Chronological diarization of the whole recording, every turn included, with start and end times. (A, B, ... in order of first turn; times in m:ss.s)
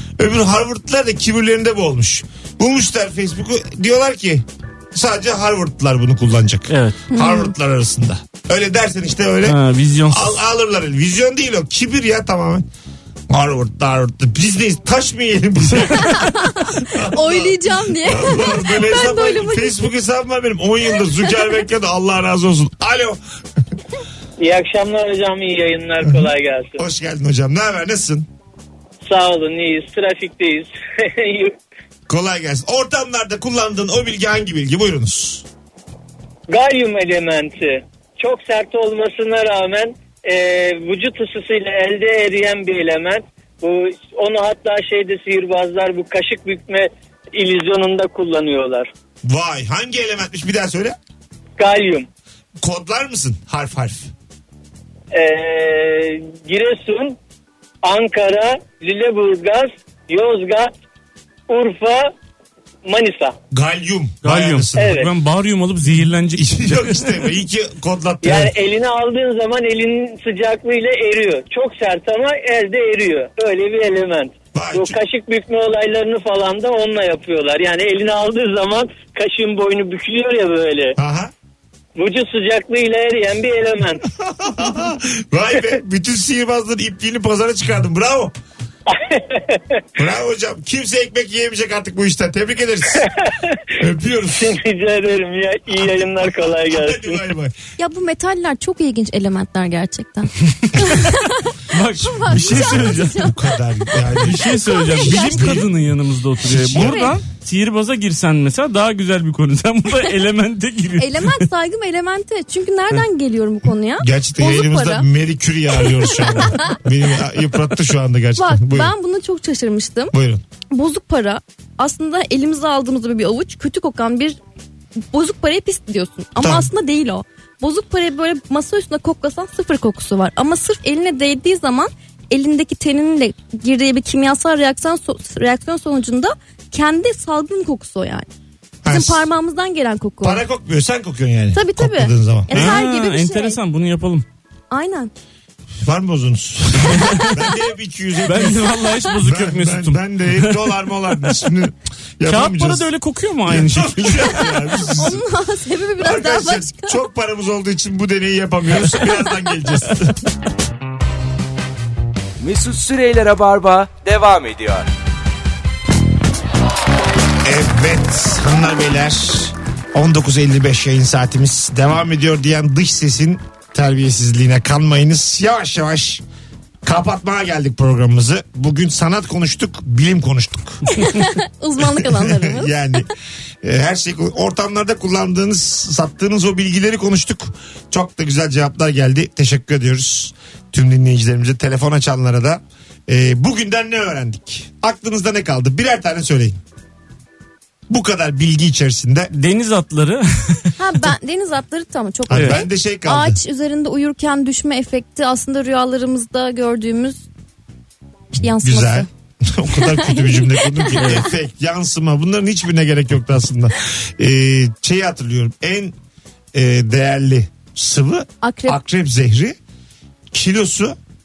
0:00.2-0:12.6 A
0:06.7-0:07.1 B
0:07.1-0:07.5 C
0:09.4-0:10.4 B
0:13.3-0:23.2 A
0:16.0-0:19.8 C
0:24.4-0:26.8 D
0:26.0-0:28.3 A
0:29.0-0:31.6 D
0:32.1-0:35.4 A
0:36.5-0:48.9 D
0:49.2-0:51.0 A
0:51.6-0:52.1 D
0:52.6-0:54.1 A
0:55.1-0:57.2 D
0:57.8-1:00.7 D
1:01.5-1:02.1 D
1:02.8-1:03.4 D
1:03.5-1:04.9 A
1:04.2-1:07.1 B
1:04.8-1:05.1 D
1:06.4-1:08.5 A
1:08.2-1:21.0 D
1:14.5-1:15.0 A
1:21.0-1:21.3 A
1:22.0-1:24.0 D
1:24.0-1:28.3 A
1:28.9-1:29.8 D
1:30.0-1:33.1 A
1:32.9-1:33.6 D
1:33.8-1:34.6 A
1:34.3-1:37.2 D
1:35.7-1:37.5 A
1:37.8-1:43.4 C
1:41.7-1:43.3 B
1:42.0-1:45.7 A
1:44.1-1:45.7 C
1:44.2-1:51.5 B
1:46.4-1:47.1 A
1:46.5-1:47.2 C
1:51.0-1:55.0 C
1:54.0-1:58.9 A
1:55.8-1:56.8 C
1:58.4-2:00.1 C
2:00.1-2:00.4 A
2:00.7-2:04.4 C
2:05.1-2:18.3 C
2:06.4-2:06.7 A
2:18.8-2:19.2 A
2:18.9-2:20.4 C
2:20.2-2:22.8 A
2:21.5-2:23.6 C
2:22.5-2:24.2 B
2:24.7-2:25.1 C
2:25.8-2:32.9 A
2:26.9-2:27.3 B
2:28.2-2:30.7 B
2:32.2-2:34.7 B
2:33.4-2:35.2 A
2:34.9-2:37.0 C
2:36.0-2:40.2 A
2:42.4-2:44.9 E
2:47.4-2:56.2 A
2:56.8-3:00.8 A
3:00.9-3:02.7 C
3:01.8-3:03.1 A
3:03.6-3:16.6 A
3:17.9-3:19.3 A
3:19.3-3:20.7 B
3:20.8-3:27.2 C
3:22.3-3:23.4 A
3:22.3-3:22.6 B
3:28.3-3:29.1 C
3:28.6-3:35.9 A
3:29.7-3:31.0 C
3:31.0-3:31.3 B
3:36.5-3:39.6 A
3:38.4-3:38.8 C
3:40.3-3:41.0 A